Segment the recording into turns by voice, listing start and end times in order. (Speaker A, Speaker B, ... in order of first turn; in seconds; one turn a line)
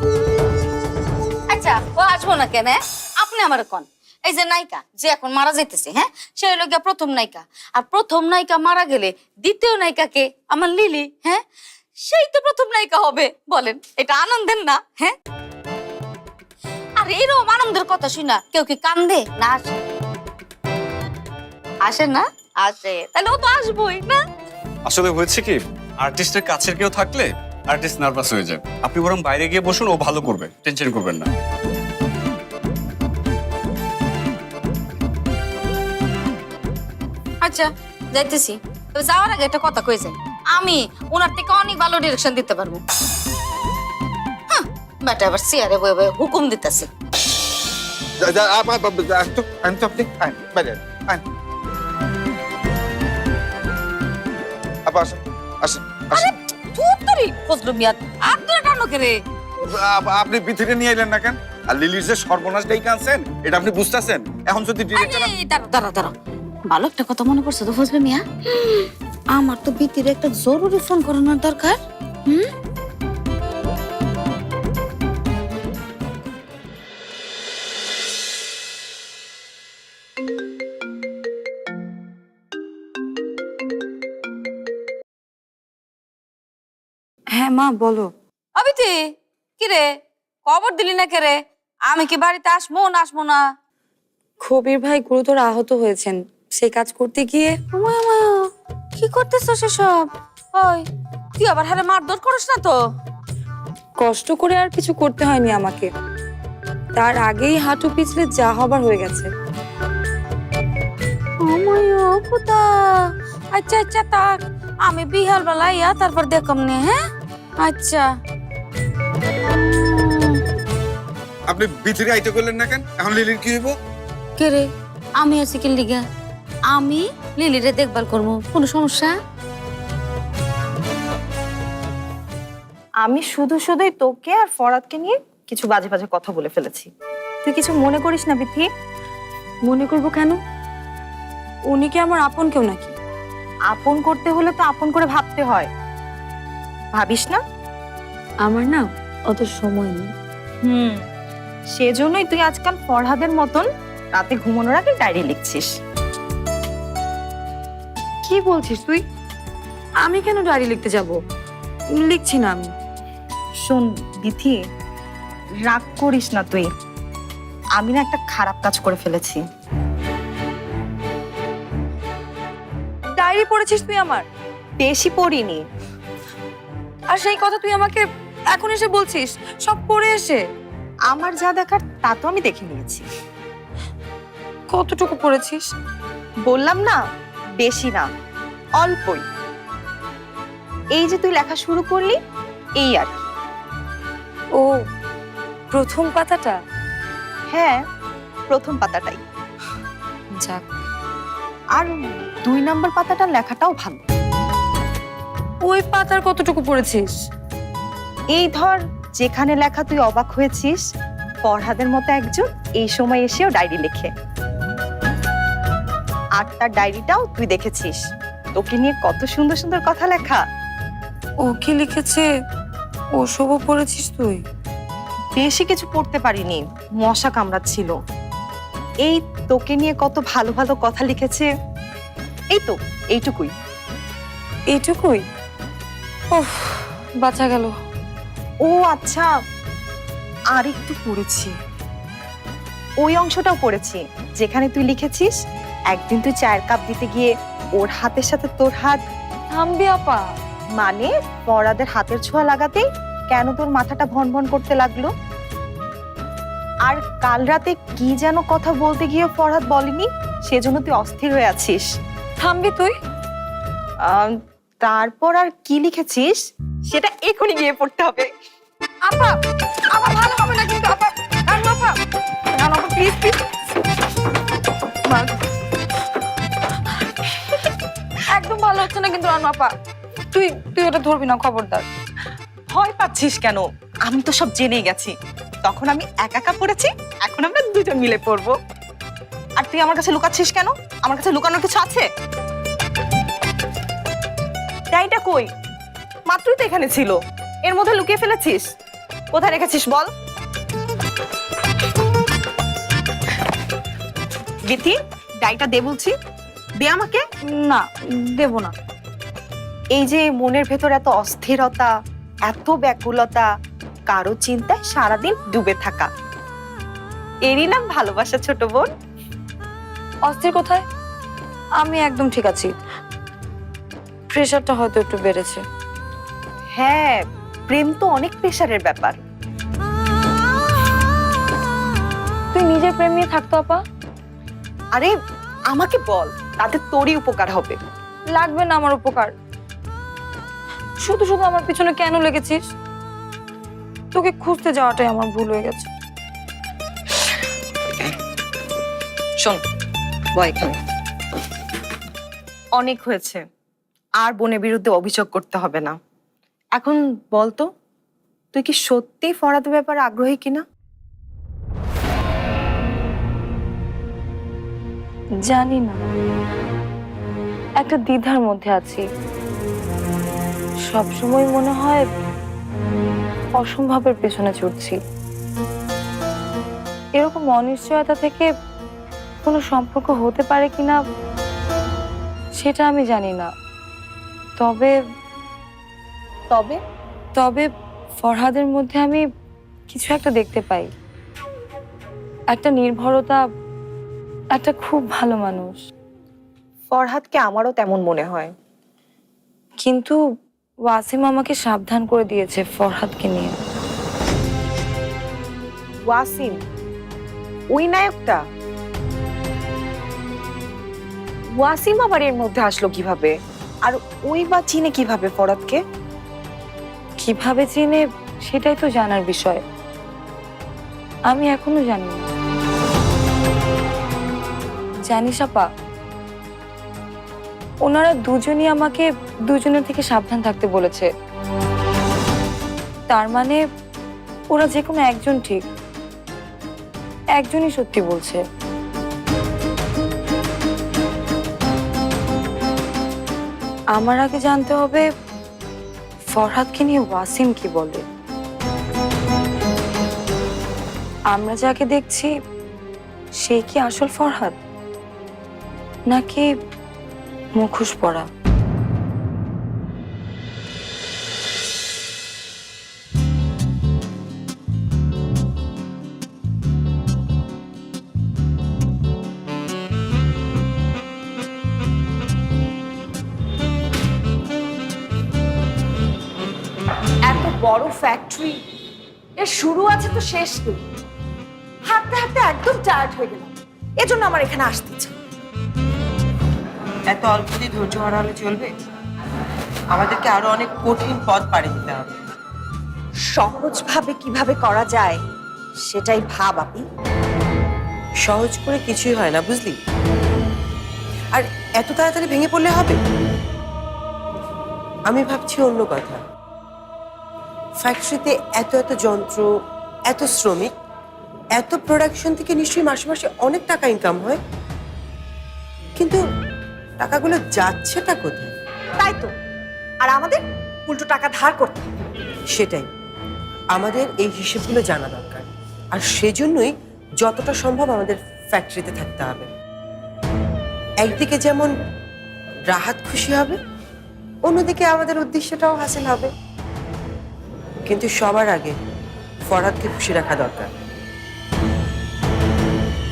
Speaker A: 1.5-11.4
Speaker A: 12.1-15.2
Speaker A: 17.0-19.7
Speaker A: 21.8-24.1
Speaker B: 24.9-31.3
Speaker A: 37.4-42.8
Speaker A: 44.5-46.9
Speaker C: 48.2-51.2
Speaker C: 54.9-56.3
Speaker A: 56.1-59.2
Speaker C: 59.6-65.3
Speaker A: 65.0-66.1
Speaker A: 66.7-72.5
Speaker D: 87.3-88.1
Speaker A: 88.6-89.9
Speaker A: 90.5-93.4
Speaker D: 94.4-97.6
Speaker A: 97.7-100.9
Speaker A: 101.4-102.8
Speaker D: 104.0-105.9
Speaker D: 107.0-109.3
Speaker A: 111.4-117.0
Speaker A: 117.6-118.1
Speaker A: 119.8-120.4
Speaker C: 121.5-123.8
Speaker A: 124.4-126.0
Speaker A: 126.7-129.1
Speaker E: 133.0-136.9
Speaker E: 137.4-138.7
Speaker D: 139.7-140.4
Speaker D: 141.7-142.9
Speaker E: 143.7-145.7
Speaker E: 146.9-147.4
Speaker D: 148.4-150.1
Speaker E: 150.6-151.1
Speaker E: 151.7-155.7
Speaker D: 158.3-159.0
Speaker D: 160.0-161.2
Speaker D: 162.0-162.7
Speaker E: 163.6-164.6
Speaker E: 165.7-166.7
Speaker E: 167.8-169.4
Speaker D: 173.2-174.2
Speaker E: 174.8-175.7
Speaker D: 177.1-180.4
Speaker E: 181.1-183.1
Speaker D: 184.7-185.7
Speaker E: 186.4-187.0
Speaker E: 187.6-188.1
Speaker E: 188.8-189.2
Speaker E: 190.9-192.2
Speaker E: 192.8-193.3
Speaker D: 195.7-196.6
Speaker E: 197.5-197.8
Speaker E: 198.5-199.2
Speaker D: 200.4-200.6
Speaker E: 201.8-204.0
Speaker D: 205.7-207.2
Speaker E: 208.3-210.8
Speaker E: 211.4-214.1
Speaker E: 216.4-218.0
Speaker E: 218.6-220.4
Speaker D: 221.4-222.3
Speaker D: 223.2-224.4
Speaker E: 225.3-228.0
Speaker E: 229.1-231.5
Speaker E: 232.5-233.5
Speaker D: 234.7-235.2
Speaker D: 236.3-237.7
Speaker E: 238.6-239.3
Speaker E: 240.5-241.5
Speaker E: 243.0-245.3
Speaker E: 245.9-249.0
Speaker D: 249.5-250.2
Speaker E: 250.8-255.1
Speaker E: 256.9-261.9
Speaker D: 262.4-262.9
Speaker E: 264.0-268.3
Speaker D: 269.1-269.4
Speaker D: 269.9-271.9
Speaker D: 272.6-273.4
Speaker D: 278.2-279.7
Speaker D: 280.3-281.9
Speaker E: 282.7-288.6
Speaker E: 289.6-292.1
Speaker E: 294.9-295.5
Speaker E: 296.3-298.6
Speaker E: 299.3-300.1
Speaker E: 304.7-306.1
Speaker E: 306.8-307.2
Speaker D: 307.5-308.7
Speaker E: 309.9-311.9
Speaker E: 312.5-313.5
Speaker E: 314.1-316.1
Speaker E: 317.5-318.9
Speaker D: 320.3-320.8
Speaker D: 321.8-322.7
Speaker D: 324.3-325.6
Speaker E: 326.8-329.2
Speaker D: 332.5-333.8
Speaker E: 335.7-337.8
Speaker D: 338.4-339.3
Speaker D: 341.0-342.6
Speaker D: 344.1-345.9
Speaker E: 350.4-350.8
Speaker E: 352.8-353.4
Speaker E: 354.2-356.0
Speaker E: 356.8-357.7
Speaker E: 358.5-360.6
Speaker D: 365.4-366.0
Speaker D: 367.8-369.0
Speaker D: 370.9-372.1
Speaker D: 373.6-375.0
Speaker D: 377.2-378.5
Speaker D: 379.4-381.0
Speaker D: 382.6-383.5
Speaker D: 384.6-385.0
Speaker E: 386.5-386.8
Speaker D: 387.4-389.2
Speaker D: 389.9-390.9
Speaker D: 392.5-393.4
Speaker D: 394.6-395.8
Speaker E: 396.9-398.5
Speaker D: 399.9-400.2
Speaker D: 400.9-403.5
Speaker E: 406.1-406.6
Speaker E: 407.7-408.4
Speaker E: 411.6-413.4
Speaker E: 413.9-415.8
Speaker D: 417.2-419.6
Speaker D: 421.3-422.3
Speaker D: 425.1-425.7
Speaker D: 427.9-431.1
Speaker D: 433.1-433.6
Speaker D: 434.5-435.7
Speaker D: 437.4-438.4
Speaker D: 444.0-445.1
Speaker D: 446.3-448.0
Speaker D: 451.3-452.3
Speaker D: 453.4-454.6
Speaker D: 456.1-456.5
Speaker D: 457.6-458.3
Speaker E: 477.2-478.6
Speaker E: 479.4-480.8
Speaker E: 481.9-485.1
Speaker F: 487.1-488.7
Speaker F: 489.9-492.1
Speaker E: 493.3-495.2
Speaker E: 495.9-496.9
Speaker F: 498.3-499.8
Speaker F: 501.3-503.0
Speaker F: 505.1-506.2
Speaker F: 507.8-509.5
Speaker F: 510.1-510.7
Speaker F: 511.6-514.4
Speaker F: 517.0-518.5
Speaker E: 519.0-519.3
Speaker E: 520.0-521.9
Speaker F: 522.5-522.9
Speaker F: 523.7-529.5
Speaker F: 531.0-531.7
Speaker F: 532.7-533.5
Speaker F: 534.5-536.3
Speaker F: 537.9-538.7
Speaker F: 539.5-540.7